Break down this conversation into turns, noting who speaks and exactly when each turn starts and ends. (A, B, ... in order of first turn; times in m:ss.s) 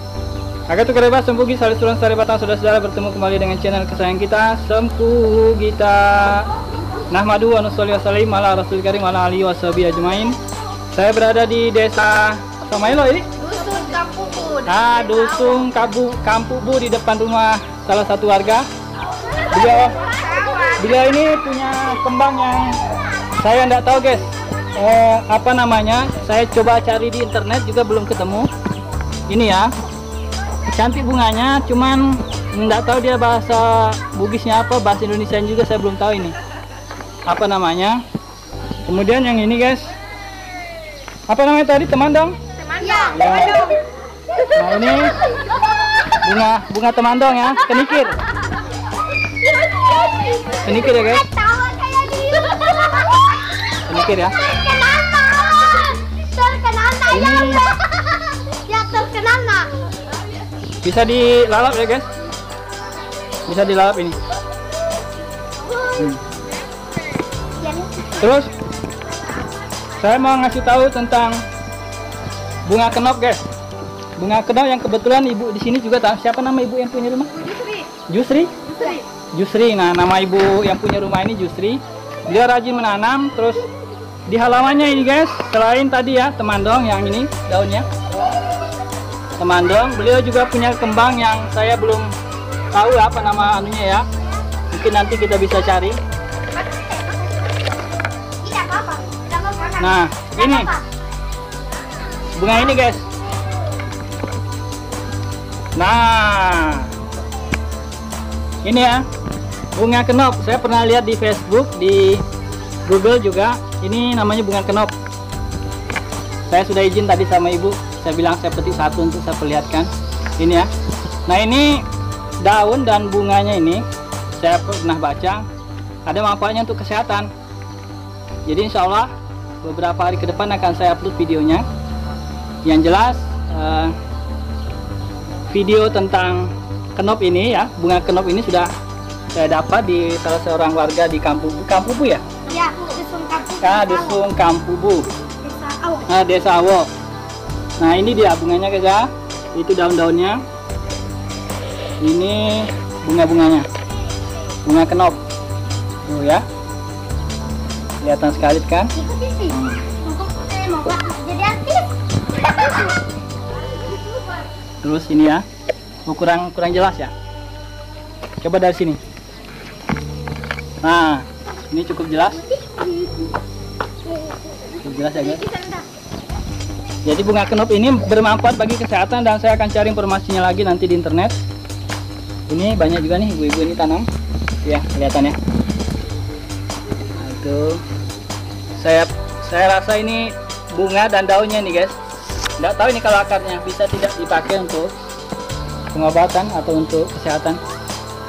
0:00.7-0:06.5 A
0:07.1-0:10.4 A
0:10.9-0:13.3 A
0:13.4-0:14.7 B
0:14.6-0:18.7 A
0:19.5-0:20.0 A
0:20.1-0:20.7 B
0:20.7-0:22.8 A
0:23.4-0:28.5 A
0:29.3-0:29.7 A
0:30.7-0:36.4 A
0:37.3-0:38.0 A
0:38.8-0:39.9 A
0:41.3-0:42.4 A
0:42.7-0:43.9 B
0:43.1-0:43.7 A
0:44.5-0:45.2 A
0:46.1-0:48.2 A
0:49.2-0:53.4 B
0:50.6-0:51.2 A
0:53.8-0:54.4 A
0:54.2-0:59.7 B
0:57.1-0:57.6 A
1:00.8-1:02.1 A
1:03.5-1:04.2 A
1:05.9-1:06.2 A
1:07.6-1:08.3 B
1:08.2-1:08.5 A
1:10.0-1:11.4 A
1:12.7-1:13.5 A
1:14.2-1:17.5 A
1:18.1-1:23.7 A
1:24.3-1:27.9 A
1:29.4-1:32.1 A
1:32.7-1:34.0 A
1:34.7-1:36.0 A
1:36.7-1:37.1 B
1:38.4-1:40.8 B
1:39.8-1:40.7 A
1:42.4-1:43.1 A
1:45.8-1:46.9 A
1:48.6-1:49.1 A
1:49.8-1:52.2 A
1:52.9-1:54.9 A
1:56.5-2:00.7 A
2:01.3-2:01.8 A
2:02.4-2:03.9 A
2:04.4-2:05.5 A
2:06.1-2:07.3 A
2:08.5-2:11.7 A
2:12.6-2:14.0 A
2:15.5-2:18.7 A
2:19.4-2:22.2 A
2:22.5-2:24.2 B
2:23.6-2:25.1 A
2:25.4-2:26.1 B
2:26.1-2:26.9 A
2:27.8-2:30.4 A
2:32.0-2:33.7 A
2:34.6-2:35.2 A
2:36.1-2:36.4 A
2:38.0-2:39.0 A
2:39.0-2:43.0 B
2:39.5-2:39.9 A
2:44.8-2:45.5 A
2:46.1-2:47.1 A
2:48.4-2:49.0 A
2:50.8-2:52.5 A
2:52.5-2:53.3 B
2:54.2-2:55.8 B
2:54.8-2:55.5 A
2:57.0-3:01.4 A
3:02.5-3:04.1 A
3:04.6-3:05.4 A
3:07.2-3:07.8 A
3:08.8-3:12.0 A
3:12.6-3:14.9 A
3:15.9-3:17.6 A